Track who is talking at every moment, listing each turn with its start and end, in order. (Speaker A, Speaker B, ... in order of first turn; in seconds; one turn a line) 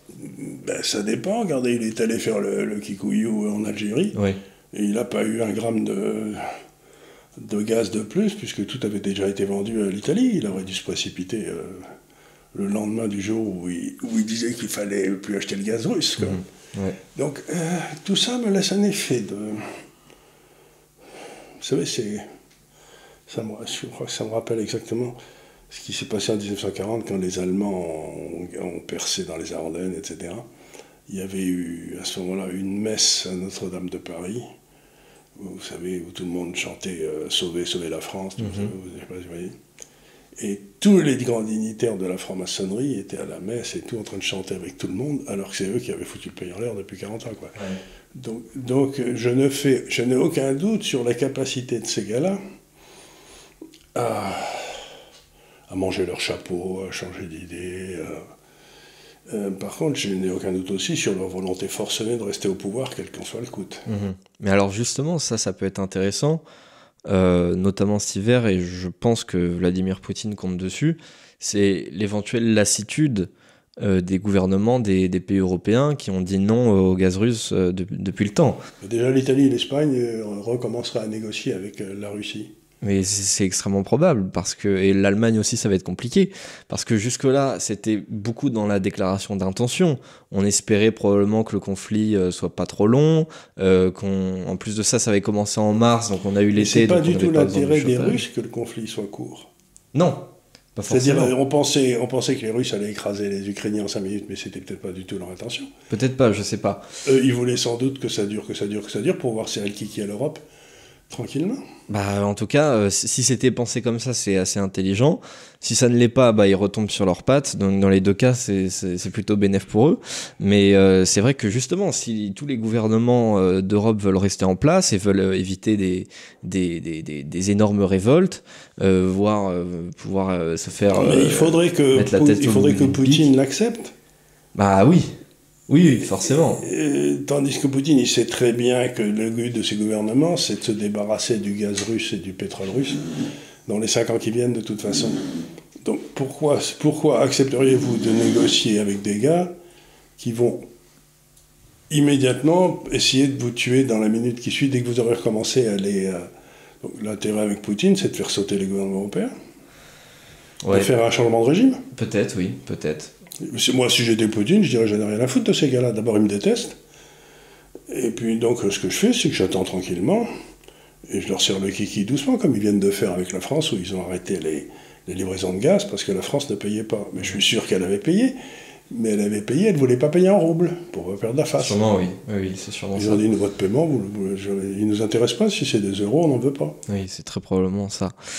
Speaker A: 0.2-4.2
Speaker B: 4.1-4.4
Speaker A: 4.7-6.5
Speaker A: 7.4-11.9
Speaker A: 12.5-16.4
Speaker B: 16.2-17.0
Speaker A: 17.1-19.8
Speaker A: 21.6-22.2
Speaker A: 23.3-25.2
Speaker A: 25.7-30.5
Speaker A: 31.1-34.5
Speaker A: 35.4-39.5
Speaker B: 38.4-38.7
Speaker A: 40.4-47.6
Speaker A: 48.1-52.4
Speaker A: 54.0-54.9
Speaker A: 55.7-58.3
Speaker A: 59.3-63.9
Speaker B: 63.9-66.4
Speaker B: 67.1-78.6
Speaker A: 78.8-82.5
Speaker B: 82.8-98.2
Speaker A: 96.6-99.5
Speaker B: 99.9-101.3
Speaker A: 100.9-105.7
Speaker B: 105.9-106.8
Speaker A: 107.0-110.4
Speaker A: 111.1-111.6
Speaker B: 111.9-133.3
Speaker A: 130.9-133.9
Speaker B: 134.6-135.2
Speaker B: 135.7-136.6
Speaker A: 135.9-143.0
Speaker A: 143.7-145.2
Speaker A: 145.8-149.5
Speaker A: 150.2-150.7
Speaker A: 151.9-156.3
Speaker A: 156.8-159.3
Speaker B: 160.6-160.9
Speaker A: 160.7-161.8
Speaker B: 161.9-163.1
Speaker A: 163.4-166.8
Speaker A: 167.9-170.3
Speaker A: 171.1-178.3
Speaker A: 178.9-181.8
Speaker B: 181.6-183.2
Speaker A: 183.0-186.8
Speaker B: 186.9-188.2